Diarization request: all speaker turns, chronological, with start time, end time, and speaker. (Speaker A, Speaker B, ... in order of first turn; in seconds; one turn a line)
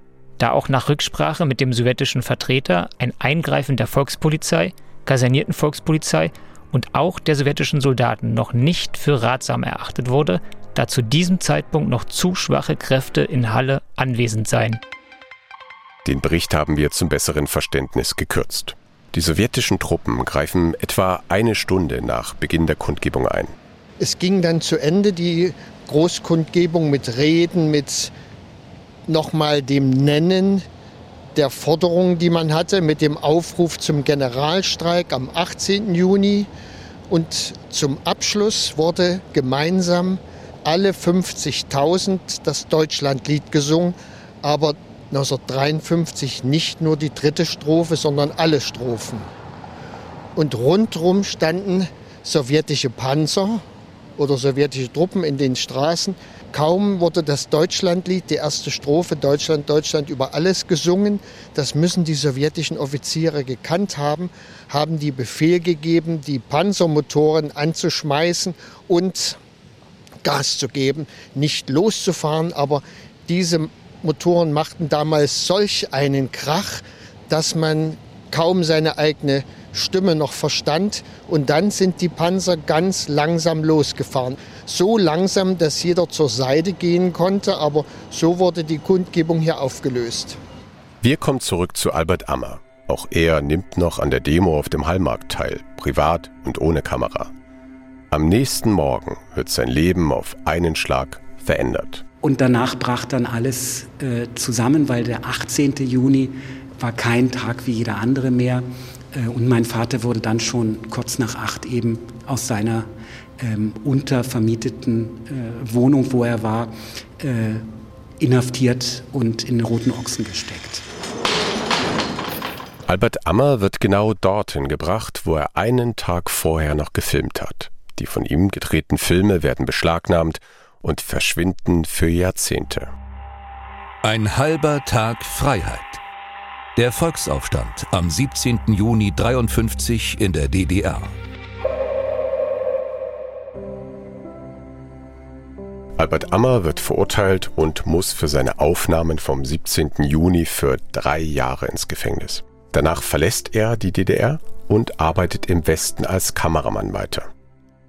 Speaker A: 0.4-14.8
Speaker B: 16.0-23.5
Speaker C: 24.0-28.1
Speaker C: 29.1-30.7
Speaker C: 31.3-36.5
Speaker C: 37.1-49.3
Speaker C: 50.3-53.6
Speaker C: 54.2-69.4
Speaker C: 70.2-90.4
Speaker B: 91.0-97.3
Speaker B: 98.1-102.0
Speaker D: 102.2-112.9
Speaker D: 113.4-117.7
Speaker D: 118.2-120.8
Speaker B: 122.9-132.9
Speaker E: 134.0-136.0
Speaker E: 136.8-141.2
Speaker B: 146.0-157.3